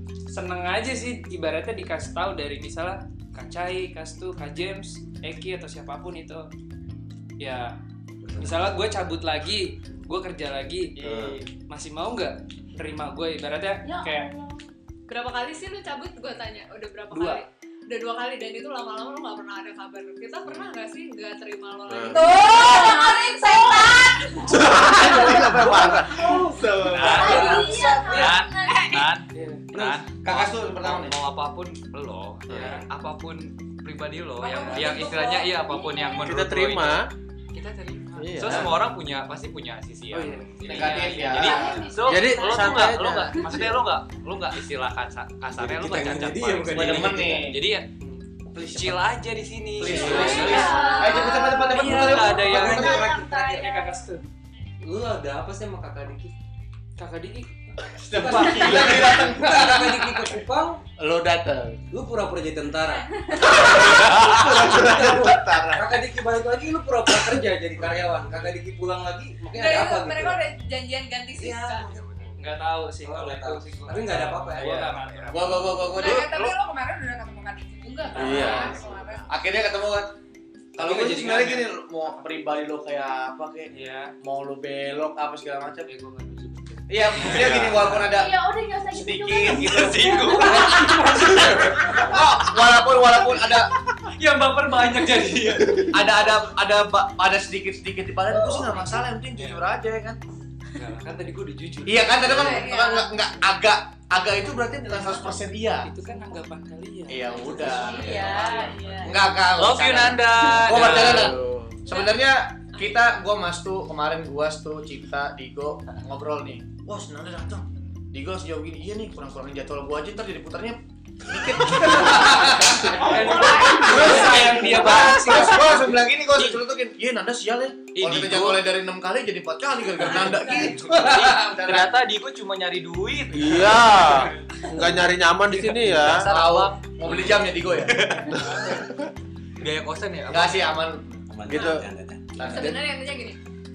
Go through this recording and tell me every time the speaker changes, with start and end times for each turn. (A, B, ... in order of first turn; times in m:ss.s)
0:00.3-0:06.5 A
0:07.4-0:07.7 A
0:08.3-0:08.6 B
0:08.3-0:14.3 A
0:11.0-0:11.4 C
0:15.1-0:23.2 D
0:17.1-0:17.4 A
0:21.9-0:22.3 C
0:22.1-0:24.4 E
0:22.3-0:24.1 F
0:24.5-0:27.7 C
0:24.7-0:25.5 F
0:25.1-0:26.4 G
0:25.2-0:25.4 E
0:25.7-0:26.4 A
0:26.8-0:37.1 H
0:27.1-0:28.9 F
0:27.2-0:27.7 G
0:27.3-0:27.8 A
0:27.7-0:29.0 E
0:29.3-0:29.7 A
0:29.7-0:31.2 G
0:32.5-0:32.8 C
0:32.5-0:32.9 A
0:34.4-0:35.2 E
0:34.6-0:36.4 F
0:34.7-0:35.0 A
0:36.2-0:37.1 C
0:37.6-0:38.4 A
0:38.2-0:38.7 C
0:38.2-0:47.9 H
0:38.4-0:38.8 G
0:40.1-0:41.5 A
0:40.7-0:41.8 G
0:41.3-0:43.0 F
0:42.0-0:43.8 C
0:45.5-0:48.2 B
0:46.7-0:47.6 G
0:48.5-0:49.1 G
0:48.7-0:50.7 H
0:49.8-0:53.3 G
0:49.9-0:54.1 F
0:50.0-0:51.0 A
0:51.7-0:54.2 A
0:52.2-0:53.3 B
0:54.8-0:56.3 B
0:57.0-0:57.5 A
0:58.0-1:00.1 G
0:58.1-1:00.8 B
1:01.0-1:01.8 C
1:01.9-1:10.4 B
1:03.4-1:06.0 C
1:04.0-1:04.3 H
1:09.5-1:11.8 D
1:11.4-1:12.0 B
1:11.8-1:12.3 H
1:12.4-1:15.7 A
1:13.0-1:15.0 B
1:14.1-1:15.7 H
1:15.3-1:16.5 G
1:15.9-1:19.3 E
1:18.1-1:19.3 C
1:18.2-1:18.7 G
1:18.3-1:18.7 D
1:18.4-1:18.7 A
1:19.3-1:20.2 G
1:20.8-1:25.9 G
1:20.8-1:22.4 A
1:20.8-1:21.6 H
1:23.7-1:24.1 A
1:25.8-1:27.9 A
1:26.9-1:28.4 G
1:27.2-1:28.0 H
1:28.1-1:31.0 F
1:28.9-1:33.7 G
1:29.5-1:31.4 H
1:30.4-1:32.6 A
1:34.2-1:35.9 A
1:34.4-1:35.9 H
1:35.9-1:40.2 G
1:39.4-1:39.6 H
1:40.8-1:42.7 A
1:41.9-1:45.9 G
1:42.3-1:43.1 D
1:44.9-1:49.1 A
1:47.1-1:48.4 G
1:47.2-1:49.2 F
1:47.4-1:48.8 B
1:49.0-2:11.9 G
1:49.6-1:51.4 H
1:50.7-1:51.8 C
2:01.3-2:03.6 C
2:03.0-2:06.0 A
2:03.9-2:04.2 B
2:04.7-2:05.5 C
2:08.0-2:08.7 H
2:10.0-2:14.3 H
2:13.3-2:16.3 C
2:15.5-2:18.8 H
2:16.2-2:18.0 G
2:18.4-2:19.1 C
2:19.6-2:20.9 H
2:20.3-2:21.2 G
2:21.3-2:22.5 B
2:21.5-2:21.9 C
2:22.4-2:22.8 G
2:22.4-2:23.4 D